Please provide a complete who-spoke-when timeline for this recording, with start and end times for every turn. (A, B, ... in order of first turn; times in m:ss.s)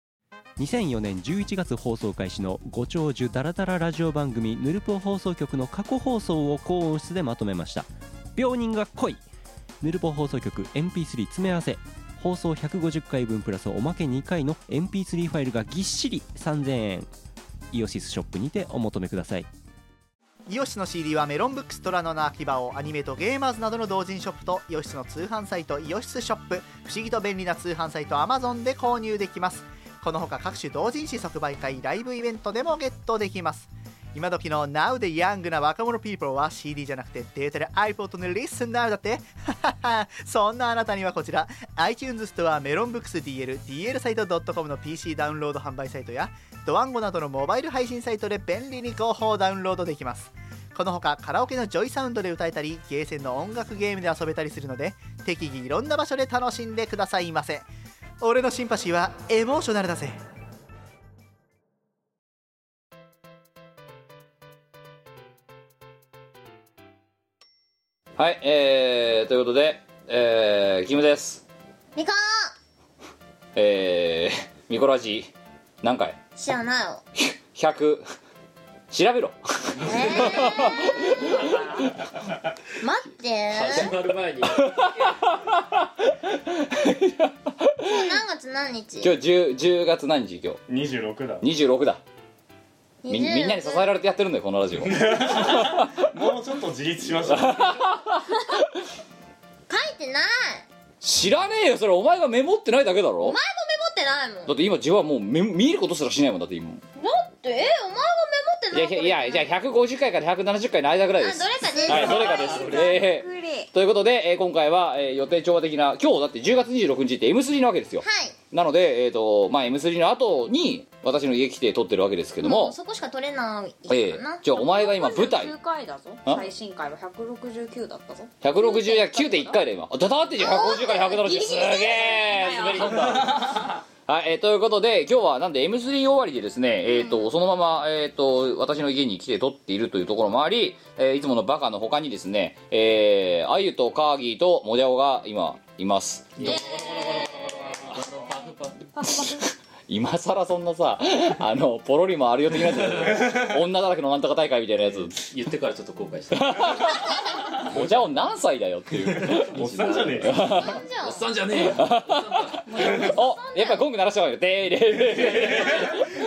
0:00.6-0:09.2 A
0:09.8-0:17.1 A
0:17.7-0:19.5 A
0:20.5-0:57.6 B
0:58.2-1:00.2 B
1:08.2-1:11.4 C
1:11.9-1:12.5 D
1:13.5-1:15.3 C
1:15.8-1:16.2 C
1:16.4-1:17.0 D
1:17.2-1:18.1 C
1:18.9-1:21.2 C
1:19.8-1:20.7 D
1:22.8-1:23.9 D
1:23.5-1:25.2 E
1:24.6-1:28.1 C
1:27.8-1:29.1 D
1:29.0-1:30.6 C
1:30.7-1:31.4 F
1:31.4-1:32.0 C
1:33.0-1:33.9 D
1:33.1-1:36.0 C
1:34.8-1:37.8 F
1:37.3-1:38.6 C
1:39.7-1:40.6 D
1:41.0-1:43.4 C
1:43.2-1:44.5 D
1:44.4-1:46.8 C
1:47.0-1:49.5 D
1:48.7-2:02.7 C
1:51.2-1:52.8 D
1:51.7-1:53.7 G
1:51.9-1:52.2 F
1:58.0-1:58.4 D
2:02.4-2:04.4 D
2:03.9-2:05.5 C
2:04.5-2:09.7 G
2:08.4-2:27.2 C
2:10.4-2:11.1 D
2:10.4-2:13.6 G
2:17.0-2:17.2 D
2:26.4-2:28.7 E
2:26.8-2:27.3 G
2:29.0-2:35.1 C
2:35.2-2:36.8 E
2:36.3-2:39.6 C
2:36.8-2:37.5 D
2:39.2-2:42.7 E
2:39.5-2:40.4 F
2:40.2-2:40.7 C
2:40.4-2:41.2 D
2:41.5-2:46.1 C
2:42.8-2:43.8 D
2:45.5-2:45.8 E